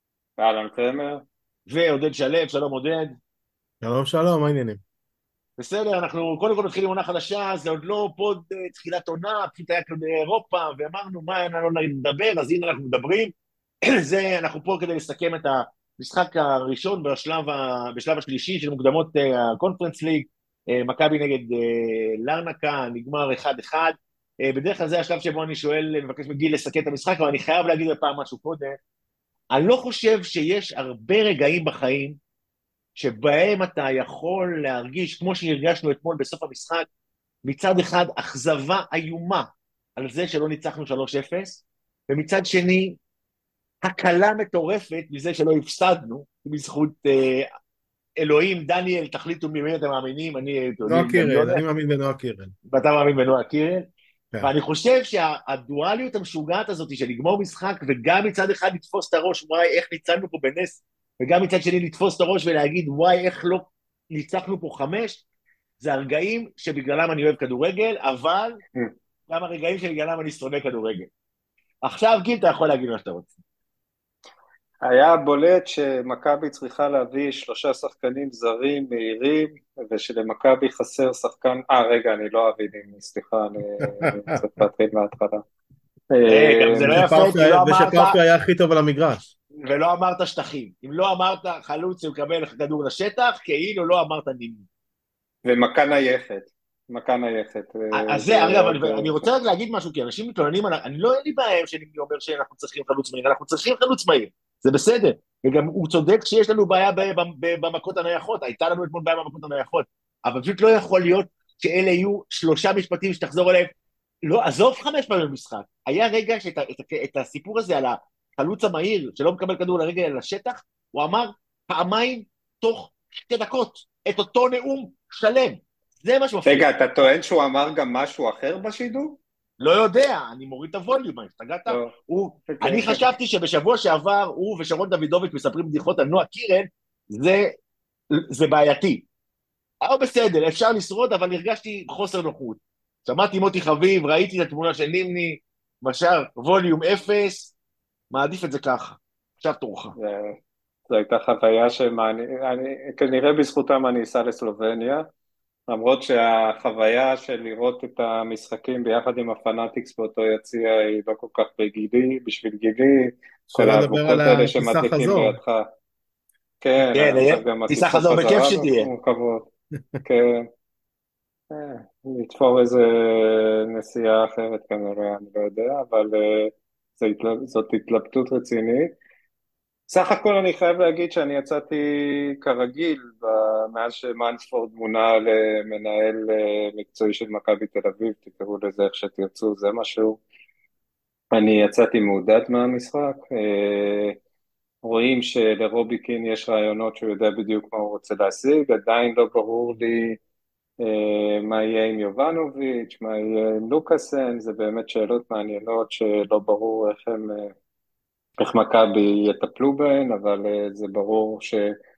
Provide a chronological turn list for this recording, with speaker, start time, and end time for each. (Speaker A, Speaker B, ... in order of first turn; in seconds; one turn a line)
Speaker A: 0.4-1.2
Speaker B: 1.7-3.1
Speaker C: 3.8-4.8
Speaker B: 5.6-13.3
Speaker B: 13.8-28.8
Speaker B: 29.5-32.2
Speaker B: 33.0-36.9
Speaker B: 37.4-43.0
Speaker B: 43.8-47.5
Speaker B: 48.2-51.6
Speaker C: 50.9-52.5
Speaker B: 52.7-53.9
Speaker B: 54.4-65.2
Speaker B: 65.8-68.6
Speaker B: 69.3-71.1
Speaker B: 71.8-73.4
Speaker A: 74.8-85.4
Speaker C: 84.0-84.6
Speaker A: 86.1-87.0
Speaker B: 86.3-88.2
Speaker C: 86.9-89.3
Speaker B: 89.6-94.6
Speaker A: 95.4-99.2
Speaker B: 97.9-113.7
Speaker B: 114.2-126.7
Speaker A: 126.5-129.2
Speaker B: 129.6-137.5
Speaker A: 131.7-131.9
Speaker A: 132.5-133.0
Speaker B: 138.1-139.1
Speaker B: 139.8-147.5
Speaker B: 148.1-149.9
Speaker A: 150.0-150.4
Speaker A: 150.9-155.1
Speaker A: 155.7-165.7
Speaker C: 163.5-165.4
Speaker A: 166.6-169.5
Speaker B: 166.9-168.9
Speaker A: 170.0-170.5
Speaker A: 171.5-178.9
Speaker A: 179.9-190.2
Speaker A: 191.3-194.2
Speaker A: 194.8-200.2
Speaker A: 200.8-207.5
Speaker A: 208.4-211.8